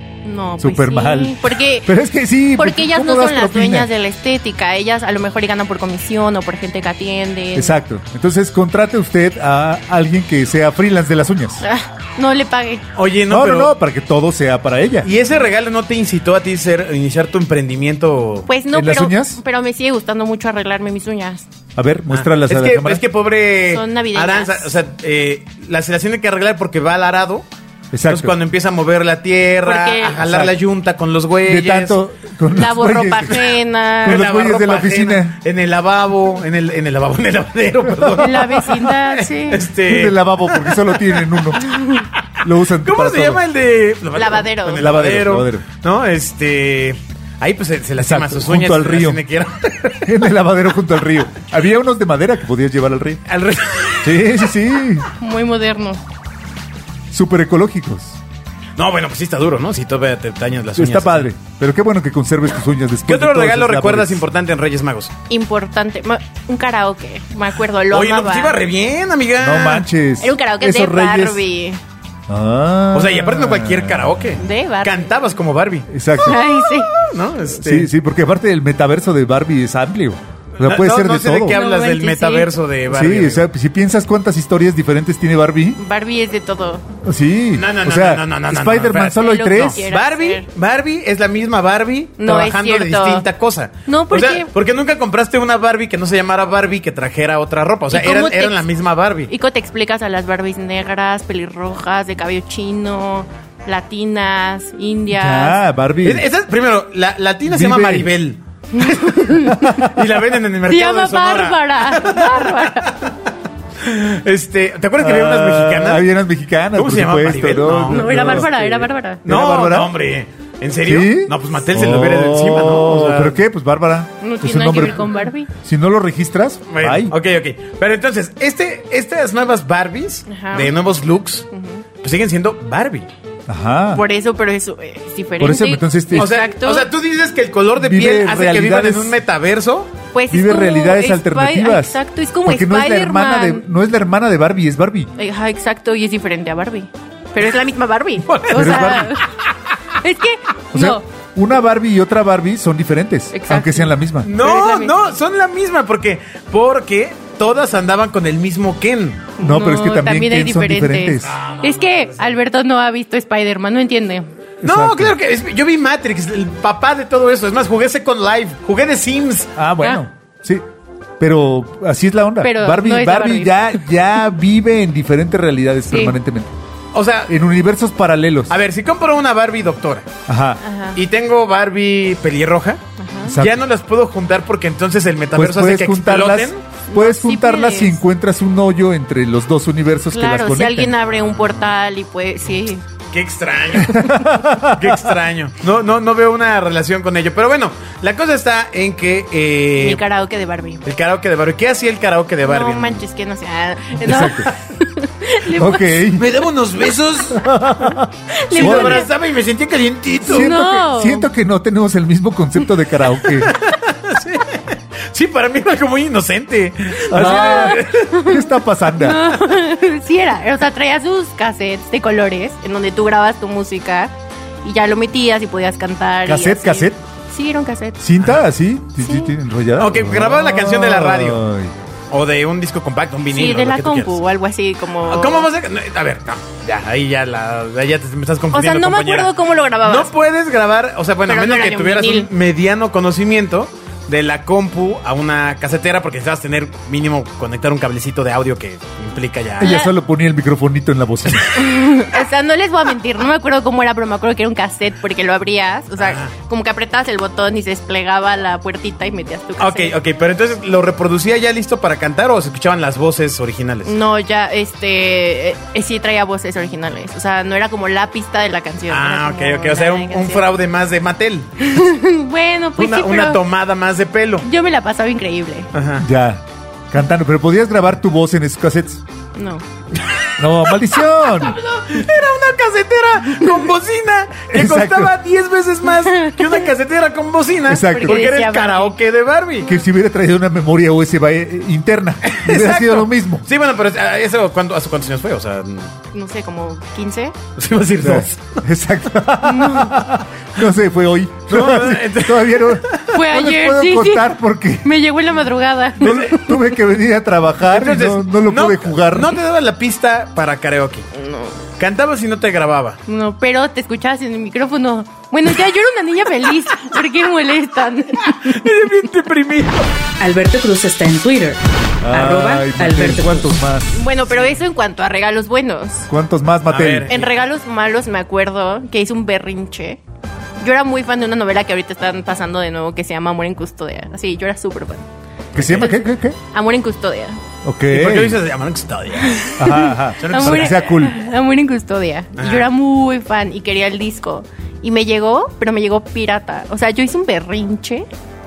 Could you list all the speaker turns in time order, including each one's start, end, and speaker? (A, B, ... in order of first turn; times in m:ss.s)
0:00.2-0:01.9 A
0:00.6-0:03.9 B
0:02.6-0:07.8 A
0:07.5-0:11.6 B
0:11.6-0:12.8 A
0:13.0-0:13.7 C
0:13.3-0:15.1 B
0:15.0-0:18.5 C
0:18.5-0:21.4 A
0:18.7-0:19.4 B
0:21.8-0:23.0 B
0:22.1-0:27.4 C
0:23.7-0:24.7 A
0:27.9-0:28.4 B
0:28.1-0:32.0 C
0:29.6-0:30.2 A
0:30.2-0:30.5 B
0:31.4-0:35.4 B
0:32.5-0:34.3 A
0:34.0-0:50.2 C
0:38.2-0:39.7 A
0:39.8-0:41.6 B
0:41.6-0:42.1 A
0:42.4-0:43.4 B
0:44.1-0:44.9 A
0:44.8-0:45.6 B
0:48.0-0:49.2 B
0:50.0-0:53.2 B
0:53.3-0:54.3 C
0:54.0-0:55.1 B
0:55.2-0:56.0 A
0:57.1-0:58.2 B
0:58.8-1:01.3 C
1:00.8-1:04.2 B
1:03.0-1:05.1 C
1:05.3-1:08.6 A
1:07.9-1:09.9 C
1:09.4-1:11.4 B
1:10.2-1:11.8 A
1:12.3-1:14.3 B
1:12.9-1:17.9 C
1:14.4-1:15.2 A
1:15.9-1:16.4 B
1:16.2-1:16.9 A
1:17.5-1:21.6 B
1:20.6-1:23.4 C
1:21.5-1:22.5 A
1:22.9-1:25.8 B
1:25.8-1:26.8 A
1:27.0-1:29.8 B
1:27.6-1:39.3 C
1:29.2-1:30.5 A
1:32.2-1:33.2 A
1:33.8-1:34.5 A
1:37.9-1:38.6 A
1:39.3-1:45.6 A
1:45.1-1:46.2 B
1:46.0-1:53.1 C
1:47.5-1:48.1 B
1:48.7-1:49.9 A
1:50.7-1:53.0 A
1:53.8-1:56.0 C
1:55.0-1:58.5 B
1:56.8-2:03.4 C
1:57.9-1:59.2 A
1:59.2-1:59.9 B
2:00.8-2:07.1 B
2:04.2-2:05.5 A
2:06.7-2:11.5 C
2:10.3-2:10.8 A
2:11.5-2:11.8 A
2:12.0-2:13.1 C
2:13.5-2:14.0 B
2:13.9-2:16.9 A
2:15.4-2:16.4 B
2:16.1-2:19.9 C
2:17.8-2:19.2 B
2:20.1-2:23.6 A
2:20.3-2:25.1 B
2:25.2-2:29.3 A
2:28.2-2:29.2 C
2:28.5-2:29.1 B
2:30.0-2:31.0 A
2:30.7-2:34.3 B
2:33.3-2:35.1 A
2:34.2-2:39.3 C
2:39.4-2:44.3 A
2:39.4-2:41.3 B
2:41.2-2:42.3 C
2:44.6-2:45.1 B
2:44.6-2:49.5 C
2:49.6-2:50.6 B
2:51.2-2:56.5 B
2:52.4-2:53.7 A
2:55.9-2:56.2 A
2:56.9-2:57.3 C
2:57.3-2:58.5 B
2:58.5-3:00.1 C
3:00.3-3:00.6 B
3:00.6-3:01.0 A
3:00.9-3:02.8 C
3:03.0-3:03.4 A
3:03.2-3:03.6 B
3:03.3-3:06.6 C
3:05.3-3:10.9 B
3:06.9-3:08.0 A
3:10.1-3:12.8 A
3:13.1-3:20.0 C
3:13.8-3:15.1 B
3:19.8-3:20.8 A
3:20.8-3:23.0 C
3:22.4-3:26.1 A
3:24.0-3:24.5 B
3:25.5-3:26.3 B
3:26.1-3:27.5 C
3:27.3-3:29.0 B
3:28.3-3:29.1 A
3:28.5-3:30.5 C
3:30.2-3:33.5 B
3:30.3-3:31.3 A
3:33.3-3:38.2 C
3:37.1-3:39.2 B
3:37.1-3:38.4 A
3:38.9-3:48.0 A
3:46.2-3:47.0 B
3:48.0-3:51.7 B
3:49.0-3:49.3 A
3:49.8-3:51.4 C
3:52.1-3:54.2 C
3:53.3-3:55.5 A
3:55.0-4:09.8 C
3:58.5-4:00.1 A
4:01.2-4:02.3 A
4:09.6-4:11.7 B
4:09.6-4:09.9 A
4:11.5-4:20.0 A
4:16.0-4:16.3 C
4:19.6-4:23.9 C
4:23.8-4:30.5 A
4:28.9-4:31.7 C
4:31.6-4:33.4 A
4:32.8-4:34.4 C
4:34.4-4:35.7 A
4:35.7-4:36.0 C
4:36.0-4:39.0 B
4:39.3-4:39.6 A
4:40.0-4:40.3 C
4:40.4-4:41.6 B
4:41.3-4:49.7 C
4:44.5-4:45.1 B
4:46.0-4:46.6 A
4:47.6-4:48.2 B
4:47.8-4:49.0 A
4:49.6-4:53.4 B
4:52.2-4:55.9 C
4:56.1-4:57.3 A
4:57.6-4:58.6 C
4:58.0-5:04.9 B
4:59.4-5:00.0 A
5:01.5-5:03.1 C
5:03.1-5:06.3 A
5:06.0-5:09.4 B
5:06.0-5:06.6 C
5:07.7-5:11.0 C
5:11.1-5:11.6 A
5:11.8-5:13.0 C
5:13.1-5:18.6 A
5:18.3-5:19.9 C
5:20.2-5:23.5 D
5:22.0-5:24.0 B
5:23.9-5:26.1 A
5:24.3-5:24.6 C
5:26.1-5:27.1 B
5:26.7-5:27.3 C
5:27.1-5:30.0 A
5:30.6-5:35.1 A
5:35.5-5:35.9 C
5:35.5-5:36.4 B
5:35.8-5:37.4 A
5:37.6-5:38.4 B
5:37.9-5:39.6 C
5:39.2-5:48.1 A
5:39.6-5:41.2 B
5:40.2-5:40.8 C
5:42.4-5:42.7 C